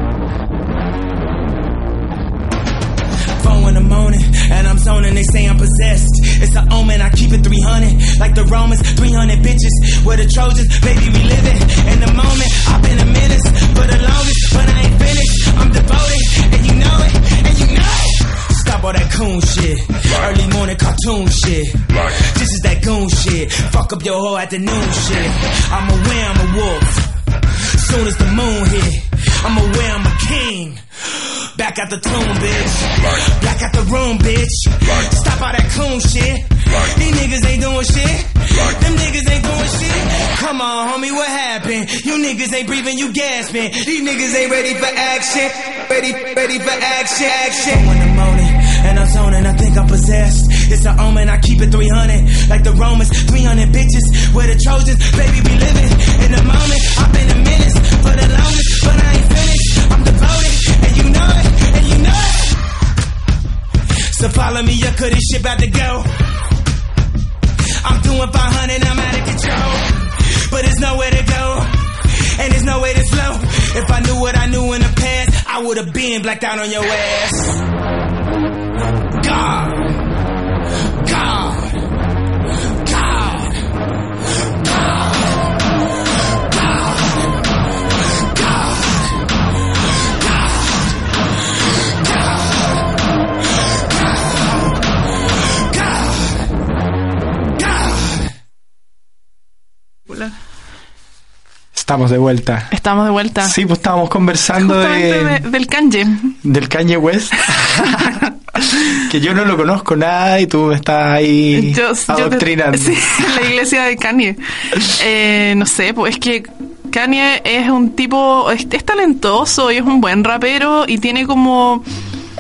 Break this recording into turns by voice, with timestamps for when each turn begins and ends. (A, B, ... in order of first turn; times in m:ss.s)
0:03.4-0:27.1 A
0:27.7-1:02.6 A
1:04.1-1:06.1 A
1:07.8-1:17.6 A
1:19.2-1:20.0 A
1:21.0-1:21.8 A
1:22.8-1:23.5 A
1:41.7-1:42.7 B
1:42.7-1:43.6 C
1:43.4-1:45.4 B
1:44.6-1:46.4 C
1:46.4-1:53.4 B
1:47.5-1:48.3 C
1:51.5-2:01.8 C